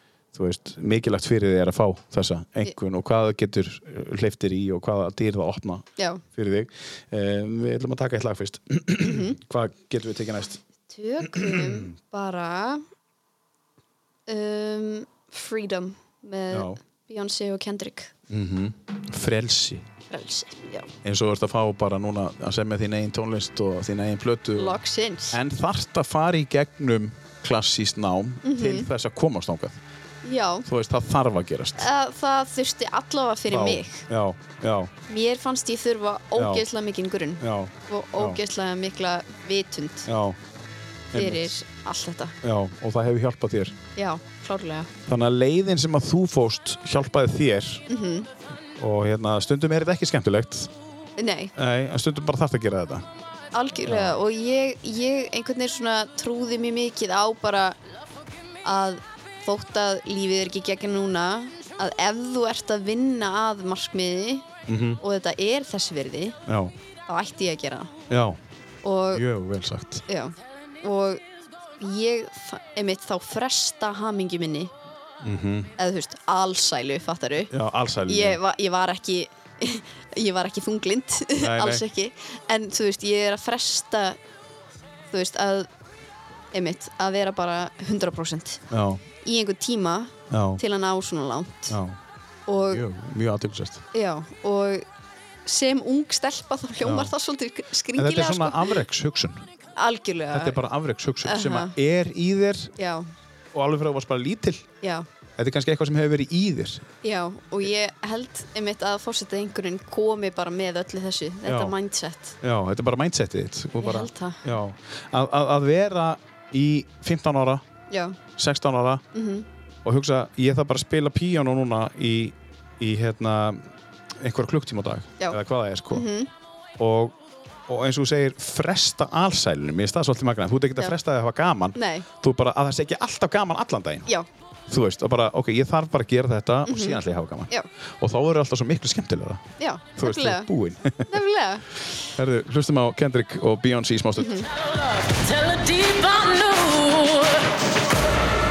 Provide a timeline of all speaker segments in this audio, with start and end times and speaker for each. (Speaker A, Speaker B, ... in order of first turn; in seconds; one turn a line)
Speaker A: 0.3-10.6
Speaker B: 6.0-6.2
Speaker B: 9.0-9.3
Speaker B: 10.9-12.8
Speaker A: 11.2-11.9
Speaker B: 14.3-18.1
Speaker A: 16.5-16.8
Speaker A: 18.3-19.9
Speaker B: 20.1-20.9
Speaker A: 21.0-24.8
Speaker B: 24.6-25.4
Speaker A: 25.3-29.8
Speaker B: 28.4-28.9
Speaker B: 30.2-30.7
Speaker A: 30.6-31.9
Speaker B: 31.8-34.1
Speaker A: 33.5-34.9
Speaker B: 35.1-40.1
Speaker A: 36.4-36.6
Speaker A: 37.4-38.4
Speaker A: 40.0-40.4
Speaker A: 41.1-41.5
Speaker B: 41.1-42.4
Speaker A: 42.4-43.8
Speaker B: 44.0-44.9
Speaker A: 45.1-47.8
Speaker B: 47.9-48.3
Speaker A: 48.8-50.7
Speaker B: 51.2-51.5
Speaker A: 51.5-53.1
Speaker B: 53.5-57.8
Speaker A: 53.8-54.2
Speaker B: 58.6-64.5
Speaker A: 64.7-65.0
Speaker B: 65.0-66.4
Speaker A: 66.5-66.7
Speaker B: 67.1-67.9
Speaker A: 68.1-68.4
Speaker B: 68.8-69.2
Speaker A: 69.1-70.0
Speaker B: 70.1-71.2
Speaker B: 71.8-74.7
Speaker A: 75.2-75.7
Speaker B: 75.8-77.5
Speaker A: 77.5-78.4
Speaker B: 78.1-84.2
Speaker A: 81.4-81.8
Speaker B: 85.1-85.7
Speaker B: 86.5-88.6
Speaker A: 88.7-89.0
Speaker B: 89.2-91.8
Speaker A: 90.3-90.6
Speaker A: 91.7-92.0
Speaker B: 92.5-92.8
Speaker A: 92.7-93.8
Speaker B: 93.9-94.8
Speaker B: 95.5-98.8
Speaker A: 96.8-97.1
Speaker A: 97.9-99.5
Speaker B: 99.8-100.6
Speaker A: 100.3-102.7
Speaker B: 101.2-101.7
Speaker B: 102.8-103.1
Speaker A: 103.5-104.7
Speaker A: 105.4-106.9
Speaker B: 107.0-112.4
Speaker A: 111.5-111.8
Speaker A: 112.4-117.6
Speaker B: 113.8-114.4
Speaker B: 117.9-118.2
Speaker A: 118.3-119.0
Speaker B: 119.1-119.5
Speaker A: 119.8-126.1
Speaker B: 125.9-126.3
Speaker A: 126.8-127.1
Speaker A: 127.7-134.1
Speaker B: 131.7-132.1
Speaker A: 134.7-141.2
Speaker B: 136.7-137.7
Speaker B: 139.6-140.5
Speaker B: 141.1-141.7
Speaker A: 142.1-144.4
Speaker B: 144.2-144.5
Speaker C: 144.6-147.5